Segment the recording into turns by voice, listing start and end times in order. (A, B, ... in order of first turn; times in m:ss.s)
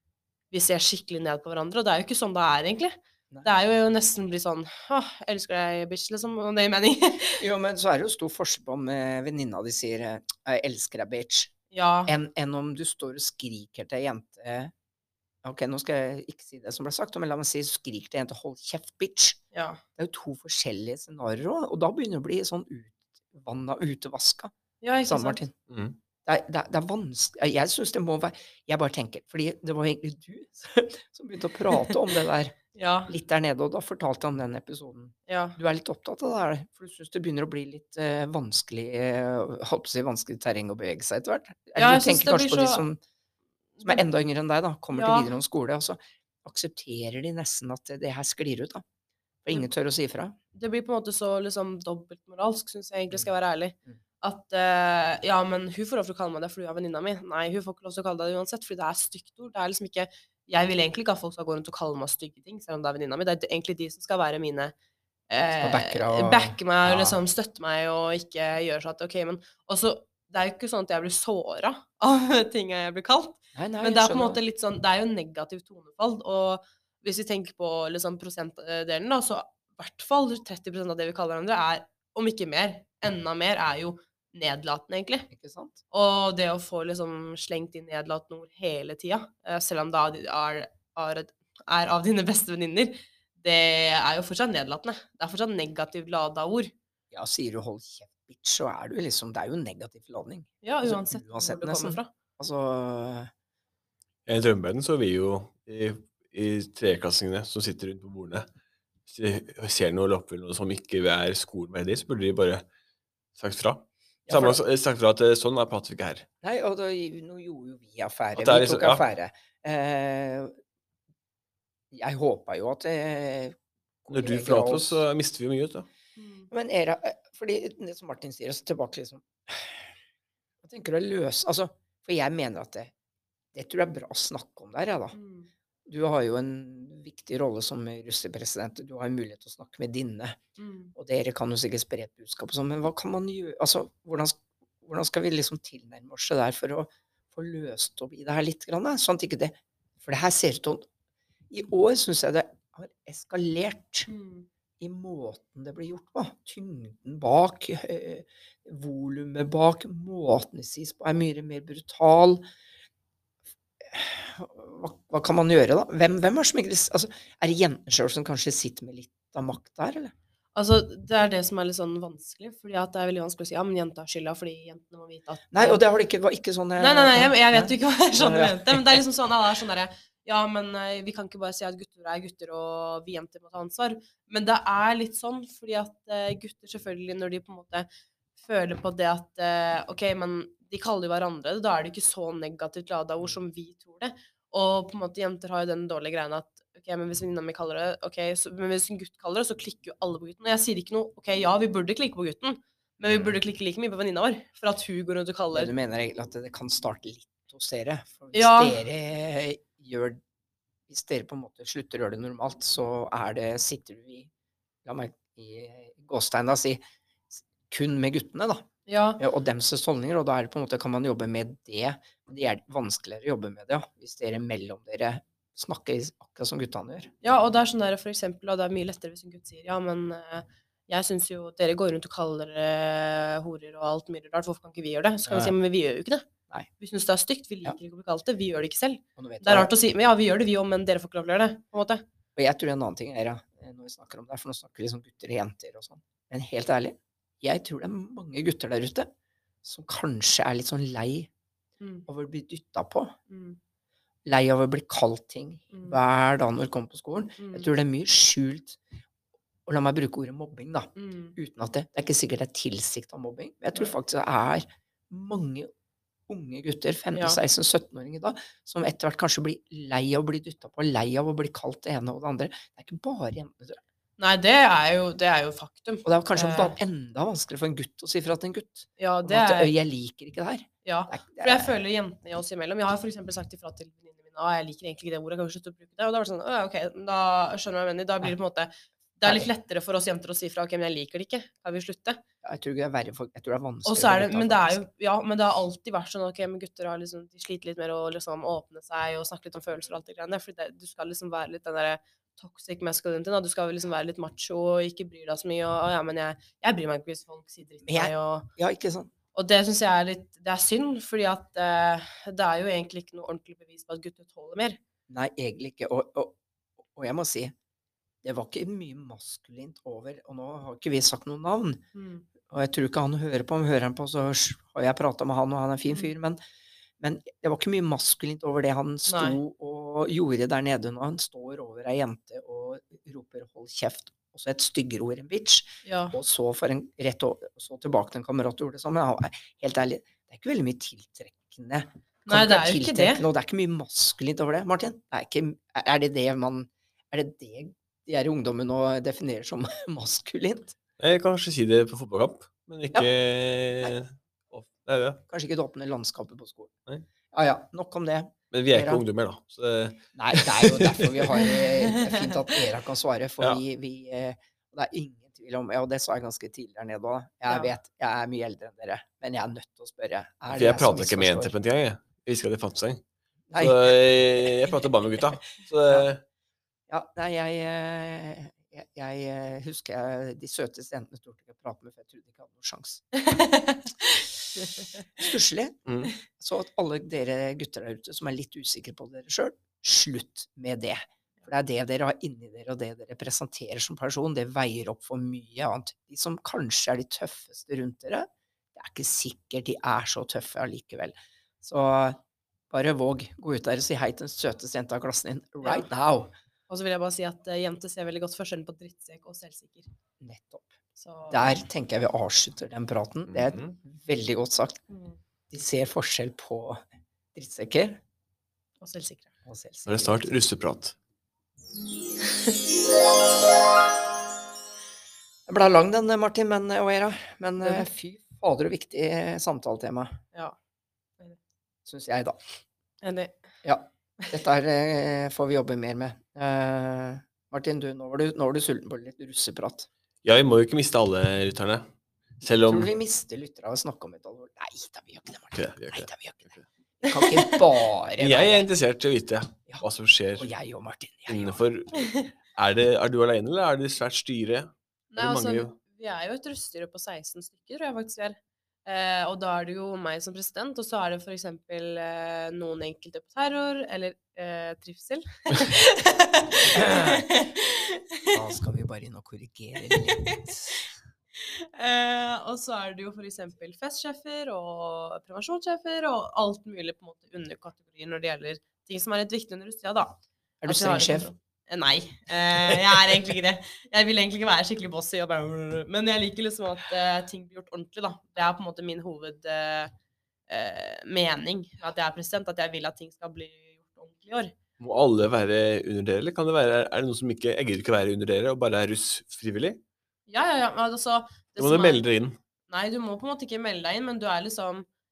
0:00.5-0:07.4 A
0:07.4-0:11.5 B
0:11.7-0:12.1 A
0:12.1-0:14.7 B
0:15.4-0:19.4 B
0:19.5-0:19.8 A
0:20.0-0:24.5 B
0:24.8-0:25.4 A
0:25.1-0:25.5 B
0:25.7-0:26.0 C
0:26.2-0:43.0 B
0:32.7-0:33.1 A
0:35.3-0:35.6 A
0:41.8-0:42.8 A
0:43.8-0:48.8 B
0:44.9-0:45.3 A
0:49.4-0:50.4 B
0:50.5-1:04.7 A
1:05.3-1:25.3 A
1:05.6-1:07.2 B
1:13.6-1:14.4 B
1:25.3-1:25.8 B
1:25.9-1:36.7 A
1:37.1-1:43.3 B
1:40.6-1:42.1 A
1:44.3-1:48.5 C
1:49.1-1:52.6 C
1:53.4-1:56.3 C
1:54.3-1:54.6 B
1:56.4-2:00.5 B
1:58.4-1:59.0 C
2:01.9-2:05.0 B
2:04.1-2:05.9 C
2:06.2-2:06.5 A
2:06.5-2:09.9 B
2:10.6-2:12.9 B
2:13.5-2:15.2 B
2:15.1-2:15.5 A
2:15.9-2:20.4 B
2:20.6-2:20.9 A
2:21.0-2:30.9 B
2:31.5-2:34.1 B
2:34.1-2:34.5 A
2:34.8-2:42.4 B
2:43.8-2:50.1 B
2:50.6-2:55.8 A
2:55.5-2:59.0 B
2:56.8-3:07.9 A
3:08.4-3:25.7 A
3:25.5-3:30.2 B
3:28.3-3:28.8 A
3:30.9-3:34.3 B
3:34.8-3:36.8 B
3:37.3-3:38.7 B
3:38.9-3:39.2 A
3:39.2-3:47.1 B
3:47.2-3:56.2 A
3:55.2-3:55.5 B
3:56.8-4:02.0 A
3:59.2-3:59.7 B
4:02.4-4:09.1 B
4:09.6-4:11.3 B
4:11.8-4:12.0 A
4:12.1-4:13.2 B
4:13.3-4:13.6 A
4:14.3-4:18.8 B
4:15.7-4:16.0 A
4:17.4-4:17.7 A
4:19.7-4:25.7 B
4:21.0-4:21.4 A
4:26.3-4:33.8 B
4:34.2-4:36.8 A
4:36.0-4:41.8 B
4:39.0-4:39.7 A
4:40.8-4:52.2 A
4:49.2-4:49.5 B
4:52.4-4:54.9 B
4:53.8-5:08.5 A
5:07.9-5:09.1 B
5:09.3-5:14.8 A
5:15.1-5:17.5 B
5:18.2-5:21.8 B
5:21.9-5:22.3 A
5:22.5-5:26.4 B
5:27.0-5:50.8 B
5:29.1-5:29.4 A
5:35.8-5:36.2 A
5:42.3-5:43.2 A
5:51.0-5:55.2 C
5:55.3-5:56.7 B
5:57.3-5:59.0 B
5:58.5-6:01.4 C
6:00.2-6:11.5 B
6:01.8-6:02.3 A
6:10.5-6:13.0 C
6:13.5-6:14.6 B
6:13.6-6:16.2 C
6:16.9-6:23.0 B
6:23.1-6:25.0 A
6:25.2-6:25.8 B
6:25.9-6:26.1 C
6:26.3-6:46.4 B
6:45.6-6:45.9 A
6:46.7-6:49.9 A
6:50.2-6:50.7 B
6:51.0-6:51.6 A
6:51.3-6:54.8 B
6:53.3-6:53.7 C
6:54.9-6:55.2 A
6:55.5-6:56.8 B
6:57.4-6:58.0 B
6:58.8-6:59.3 A
6:59.5-7:00.3 B
6:59.9-7:01.0 C
7:05.5-7:10.2 B
7:11.9-7:12.4 B
7:13.0-7:13.4 A
7:13.6-7:19.9 B
7:20.2-7:21.8 C
7:22.4-7:22.9 C
7:22.6-7:28.7 B
7:25.6-7:26.1 C
7:27.0-7:27.6 A
7:28.2-7:30.5 C
7:30.4-7:31.6 B
7:31.3-7:35.7 C
7:32.0-7:32.3 A
7:35.1-7:48.3 A
7:46.7-7:47.3 B
7:48.3-7:50.8 B
7:49.8-7:50.8 A
7:51.4-8:09.9 A
8:00.6-8:01.3 B
8:02.7-8:03.0 B
8:10.5-8:14.5 A
8:14.8-8:19.8 C
8:20.3-8:22.1 A
8:21.6-8:22.4 C
8:22.7-8:24.9 A